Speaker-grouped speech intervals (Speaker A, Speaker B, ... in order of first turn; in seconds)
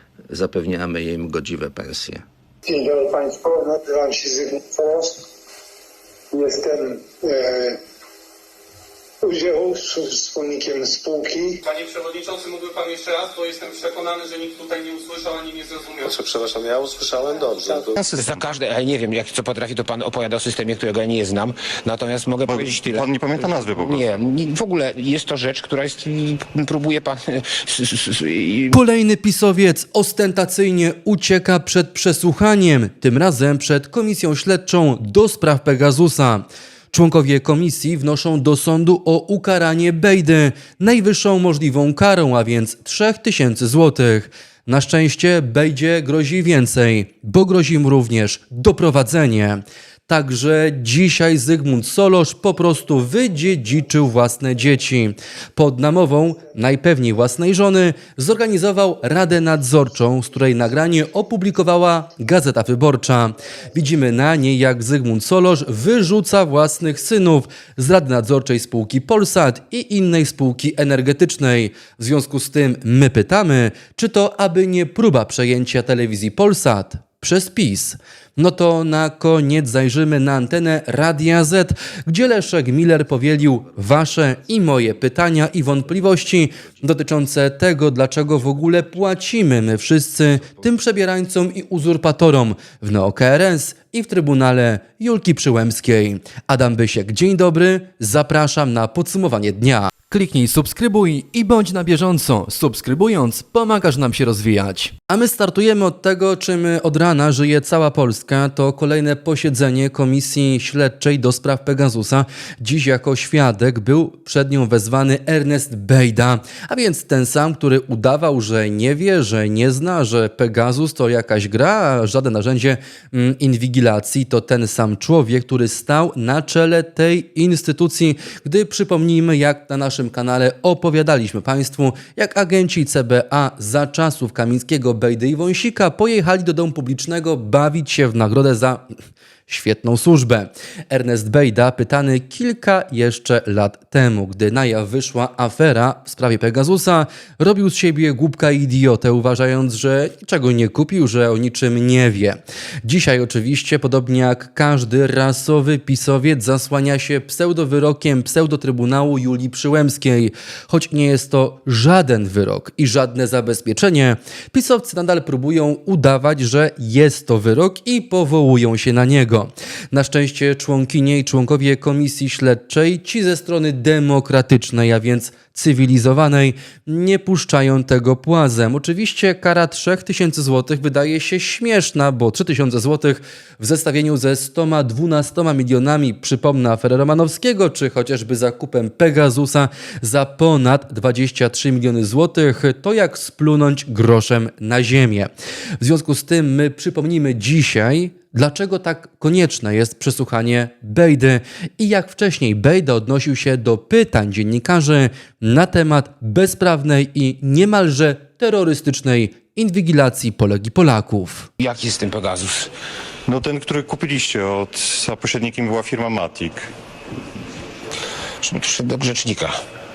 Speaker A: 0.3-2.2
Speaker B: 2.6-5.2, 6.3-7.8, 9.2-11.6
Speaker C: 11.7-15.9
Speaker D: 16.0-18.0
Speaker E: 17.9-18.5, 22.4-24.1, 213.3-216.7
Speaker F: 18.1-28.8, 211.6-212.7, 218.4-219.5
Speaker G: 28.7-138.8, 139.5-211.5